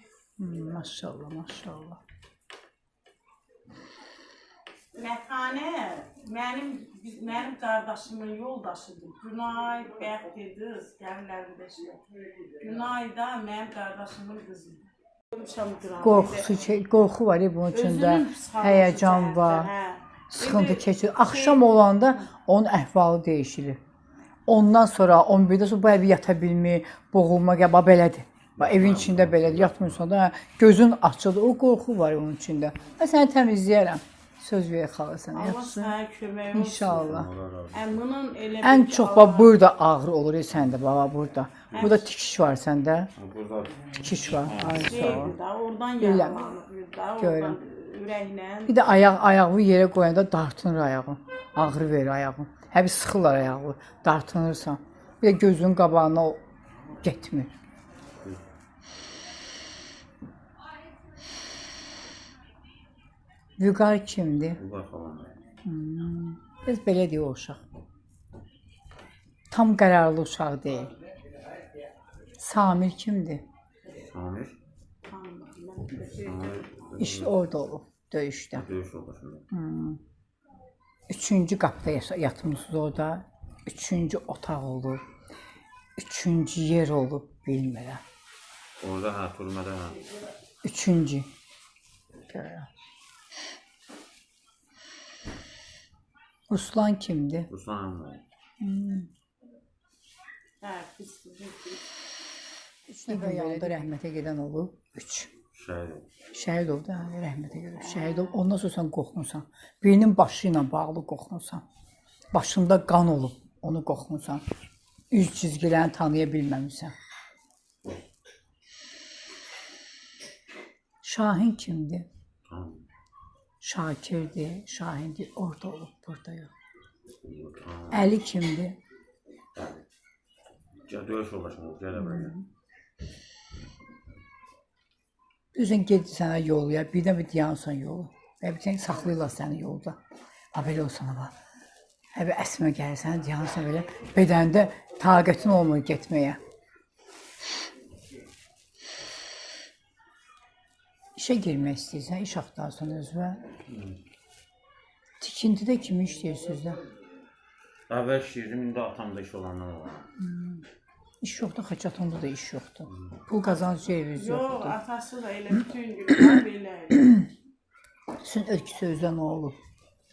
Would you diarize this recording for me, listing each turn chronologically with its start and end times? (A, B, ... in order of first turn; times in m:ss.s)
0:00.4-0:02.0 A
0:04.9-0:12.0 B
0:12.6-0:16.6 B
0:16.0-0:19.7 A
0:17.7-0:22.3 B
0:20.3-0:23.8 A
0:24.5-0:36.0 A
0:28.6-0:30.0 C
0:35.3-0:37.1 B
0:36.5-0:37.3 A
0:36.8-0:38.0 C
0:37.7-0:39.6 B
0:38.6-0:43.1 A
0:41.7-0:42.0 C
0:43.2-0:45.4 C
0:44.0-0:45.4 A
0:44.8-0:49.0 B
0:46.0-0:46.6 A
0:47.2-0:47.6 A
0:48.7-0:56.4 A
0:57.0-0:57.6 A
1:03.6-1:04.6 A
1:04.6-1:05.3 C
1:05.6-1:07.6 A
1:09.5-1:10.9 A
1:12.4-1:13.4 A
1:14.0-1:14.6 C
1:15.1-1:16.9 B
1:16.1-1:17.4 C
1:17.0-1:18.7 A
1:18.5-1:19.5 C
1:19.5-1:20.0 A
1:21.1-1:25.0 A
1:26.0-1:28.0 A
1:28.8-1:30.0 C
1:30.6-1:31.3 A
1:32.3-1:32.7 A
1:36.5-1:37.5 A
1:37.5-1:38.2 C
1:38.6-1:39.1 A
1:40.6-1:41.8 B
1:42.9-1:45.3 A
1:43.0-1:43.9 B
1:45.5-1:46.1 C
1:46.3-1:51.6 A
1:47.8-1:48.4 B
1:52.3-1:54.4 A
1:55.1-1:56.9 A
2:01.0-2:02.1 A
2:02.5-2:02.8 C
2:03.6-2:06.5 A
2:07.2-2:08.1 C
2:07.9-2:08.8 A
2:09.6-2:09.8 C
2:10.9-2:12.4 C
2:12.0-2:12.4 A
2:15.5-2:20.0 A
2:20.5-2:21.3 A
2:22.1-2:26.4 A
2:31.2-2:33.4 A
2:33.7-2:34.0 C
2:35.2-2:36.8 A
2:37.9-2:40.1 C
2:40.2-2:40.6 A
2:41.2-2:44.8 A
2:42.9-2:43.2 C
2:44.2-2:47.3 B
2:48.2-2:49.6 A